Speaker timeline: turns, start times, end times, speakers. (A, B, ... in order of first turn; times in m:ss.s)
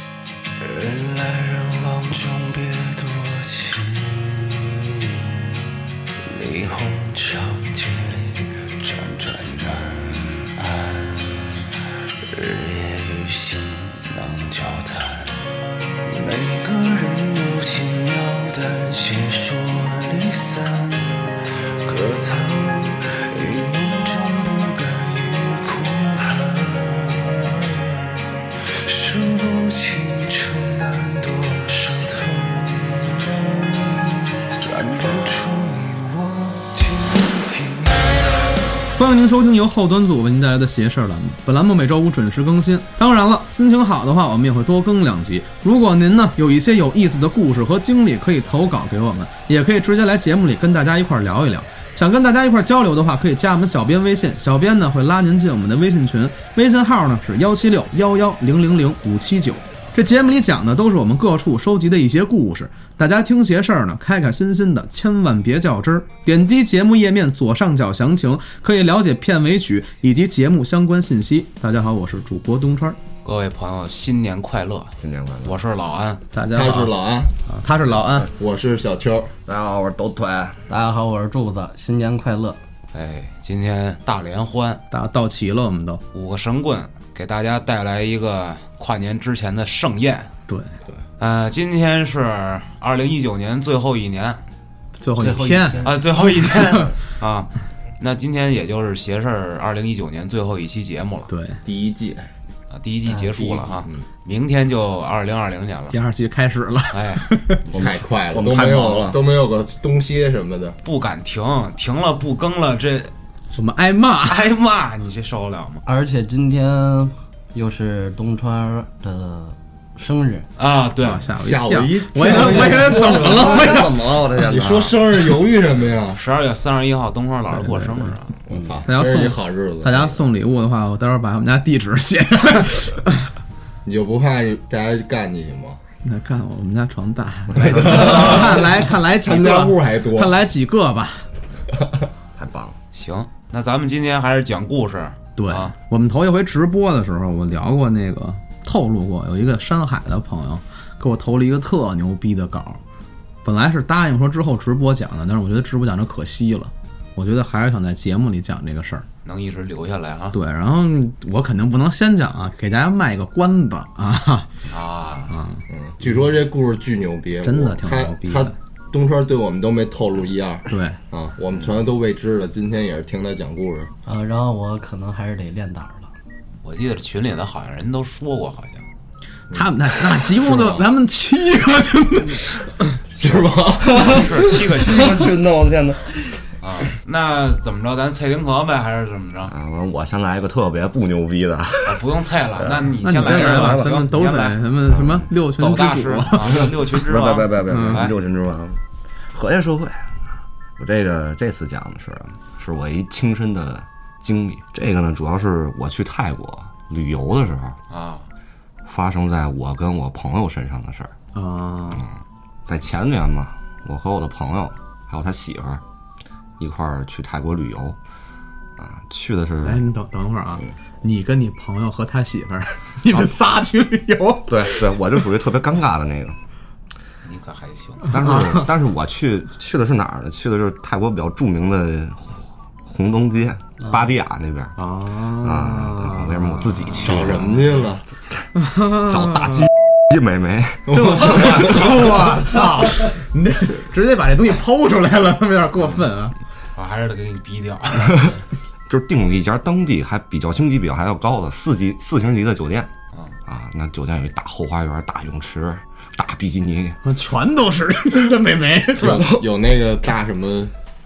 0:00.6-0:05.6 A
0:06.2-0:11.7 A
0:12.3-0:15.4 A
0:16.0-0:38.6 A
0:39.0-1:13.0 B
1:13.2-1:16.2 C
1:15.0-1:15.6 D
1:16.3-1:16.9 B
1:16.5-1:17.3 E
1:17.6-1:18.3 B
1:18.3-1:19.3 E
1:19.4-1:20.6 D
1:20.7-1:22.6 F
1:22.9-1:24.8 C
1:24.9-1:26.0 B
1:26.1-1:30.3 C
1:30.5-1:30.8 B
1:31.2-1:34.4 C
1:35.0-1:35.9 B
1:35.2-1:36.1 F
1:35.8-1:41.3 C
1:41.3-1:41.6 B
1:41.6-1:42.3 E
1:42.7-1:46.0 C
1:43.1-1:43.7 F
1:45.9-1:47.6 B
1:46.9-1:47.3 C
1:47.7-1:50.8 E
1:47.7-1:49.2 D
1:50.8-1:53.1 C
1:53.5-1:54.5 B
1:54.3-1:55.8 C
1:55.8-2:00.5 F
2:00.6-2:01.3 C
2:01.0-2:04.0 B
2:01.3-2:03.8 E
2:03.0-2:05.0 D
2:04.4-2:06.2 E
2:06.1-2:08.4 C
2:07.6-2:08.1 B
2:08.5-2:10.2 E
2:08.5-2:08.8 F
2:08.8-2:13.3 B
2:13.8-2:15.8 E
2:16.0-2:21.3 B
2:17.6-2:20.3 E
2:22.4-2:22.8 D
2:22.9-2:25.7 C
2:25.4-2:32.8 B
2:33.4-2:39.1 B
2:39.2-2:40.4 C
2:40.3-2:44.5 B
2:44.7-2:45.3 C
2:45.3-2:46.3 B
2:45.7-2:53.9 E
2:47.4-2:48.6 B
2:50.7-2:51.0 B
2:54.0-2:56.1 F
2:56.6-2:58.9 C
2:59.5-3:02.9 B
3:00.4-3:00.8 E
3:03.2-3:04.5 E
3:03.2-3:06.1 D
3:03.9-3:05.3 C
3:06.6-3:09.5 C
3:09.5-3:12.0 D
3:11.8-3:15.0 C
3:12.6-3:14.0 D
3:13.0-3:16.7 B
3:14.9-3:15.3 D
3:15.6-3:18.2 C
3:16.5-3:27.8 D
3:17.7-3:18.1 B
3:27.9-3:28.3 C
3:28.8-3:31.1 D
3:31.3-3:32.0 B
3:32.7-3:35.8 D
3:36.6-3:38.0 D
3:38.8-3:39.8 D
3:39.6-3:44.8 B
3:44.5-3:46.4 D
3:47.2-3:48.1 C
3:48.1-3:54.8 D
3:48.2-3:48.6 B
3:54.8-3:56.4 B
3:55.3-4:02.0 D
3:57.0-3:58.0 E
3:58.6-3:59.7 B
4:00.9-4:06.4 B
4:06.7-4:08.4 C
4:08.9-4:12.9 D
4:13.5-4:17.0 D
4:17.0-4:19.2 B
4:18.9-4:20.7 E
4:19.0-4:19.4 D